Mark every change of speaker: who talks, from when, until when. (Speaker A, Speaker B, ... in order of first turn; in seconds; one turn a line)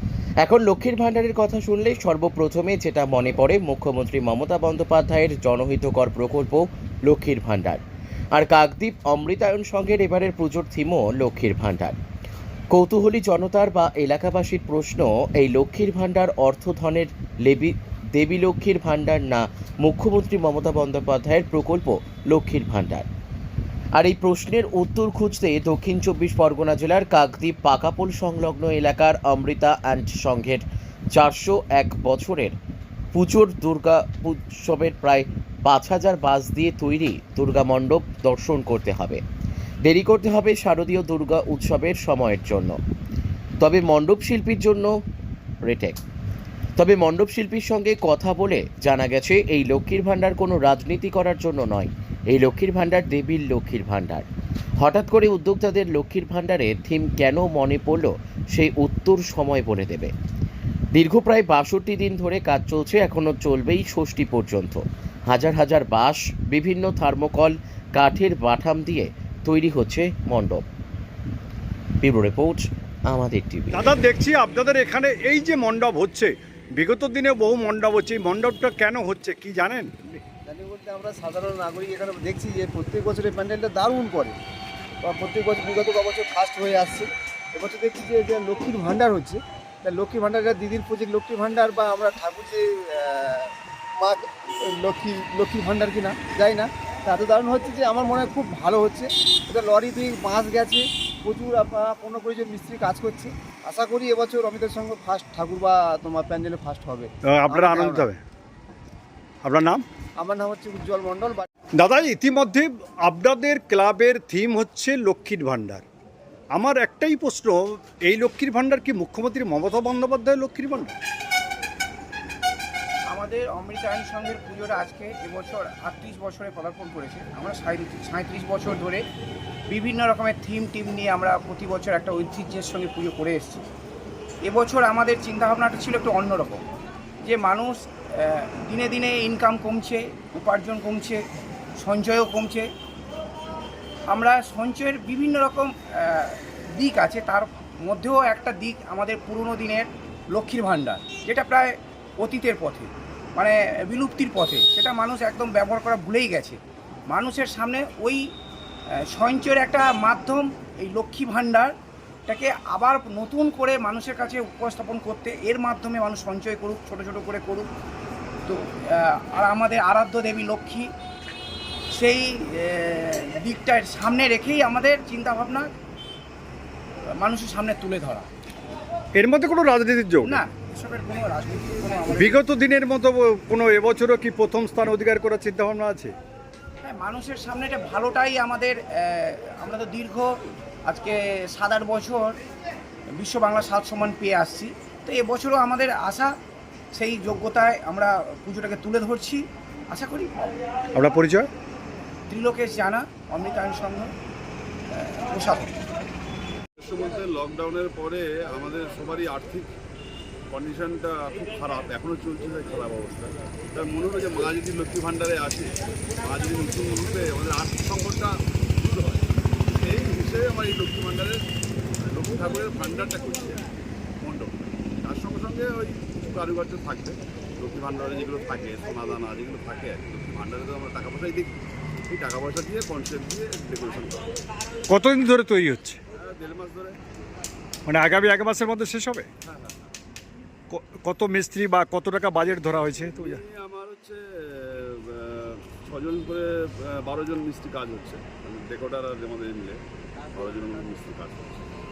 Speaker A: 0.4-7.8
Speaker A: 8.3-12.0
Speaker A: 12.7-23.1
Speaker A: 23.9-32.6
Speaker A: 33.1-39.2
Speaker A: 39.8-42.8
Speaker A: 43.6-44.9
Speaker A: 45.6-46.0
Speaker A: 46.8-54.2
Speaker A: 54.8-60.1
Speaker A: 60.9-70.7
Speaker A: 72.0-73.8
Speaker B: 73.7-80.2
Speaker C: 80.5-84.4
Speaker C: 85.0-108.0
Speaker B: 107.3-108.2
Speaker B: 109.4-109.8
Speaker C: 110.2-111.5
Speaker B: 111.8-115.9
Speaker B: 116.5-121.0
Speaker D: 123.1-129.0
Speaker D: 129.7-133.7
Speaker D: 134.4-136.6
Speaker D: 137.2-141.2
Speaker D: 141.8-142.7
Speaker D: 144.1-158.2
Speaker D: 159.1-161.7
Speaker D: 162.3-167.7
Speaker D: 168.5-170.9
Speaker D: 171.9-175.7
Speaker D: 177.2-178.3
Speaker B: 179.2-180.4
Speaker D: 180.2-182.3
Speaker B: 182.2-186.2
Speaker D: 186.8-190.3
Speaker D: 190.9-192.4
Speaker D: 193.2-196.3
Speaker D: 196.9-200.3
Speaker B: 200.9-201.5
Speaker D: 202.3-204.1
Speaker D: 204.9-205.7
Speaker E: 206.8-209.7
Speaker E: 210.5-221.4
Speaker E: 222.0-223.7
Speaker E: 224.2-234.3
Speaker B: 234.9-236.0
Speaker E: 236.1-237.0
Speaker B: 237.9-239.3
Speaker E: 239.5-239.9
Speaker B: 240.7-243.4
Speaker E: 242.8-249.8
Speaker E: 250.3-251.7